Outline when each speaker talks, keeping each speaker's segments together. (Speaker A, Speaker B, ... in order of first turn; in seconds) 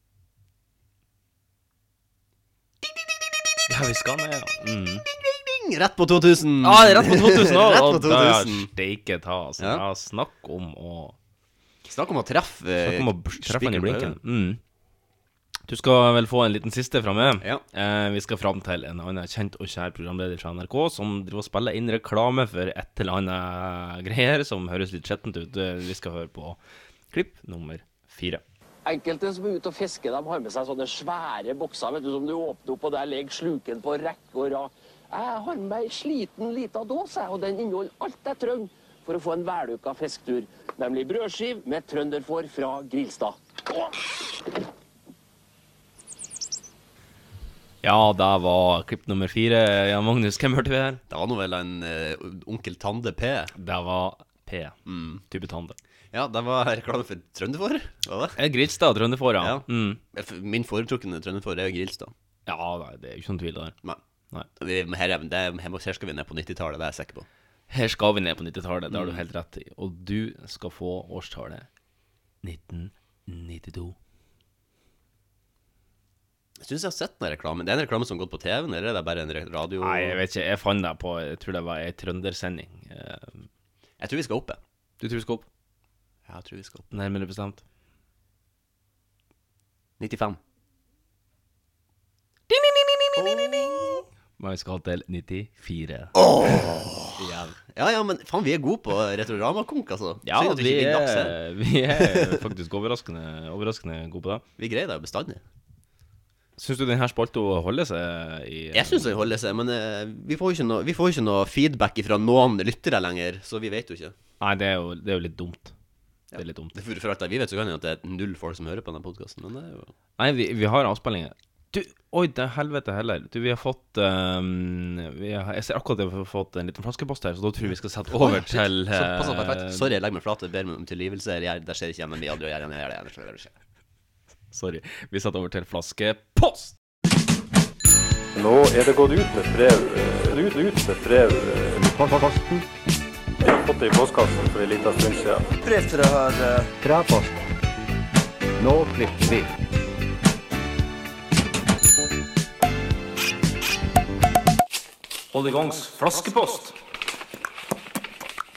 Speaker A: 3.7-5.1, 6.6-11.2, 12.8-14.6, 15.7-26.6, 27.1-28.4, 47.8-51.0, 53.5-55.8, 58.4-60.0, 62.5-63.8, 67.7-71.7, 72.4-73.9, 79.8-83.5, 85.0-85.5, 86.9-87.6, 92.5-96.2, 97.1-97.6, 100.2-104.4, 106.6-109.1, 114.4-115.7, 116.3-116.7, 120.2-129.9, 134.5-136.7, 155.3-156.7
Speaker B: 5.1-8.7, 9.6-9.8, 11.8-14.2, 51.1-53.5, 54.9-55.2, 56.1-58.4, 59.4-62.1, 64.6-67.2, 68.9-69.2, 76.6-80.2, 84.0-84.6, 86.2-86.9, 90.0-90.4, 93.2-94.0, 96.1-101.3, 102.0-102.4, 104.6-105.4, 108.7-114.1, 116.3-119.9, 128.1-133.5
Speaker C: 28.8-43.4
Speaker D: 138.3-142.4, 143.4-145.5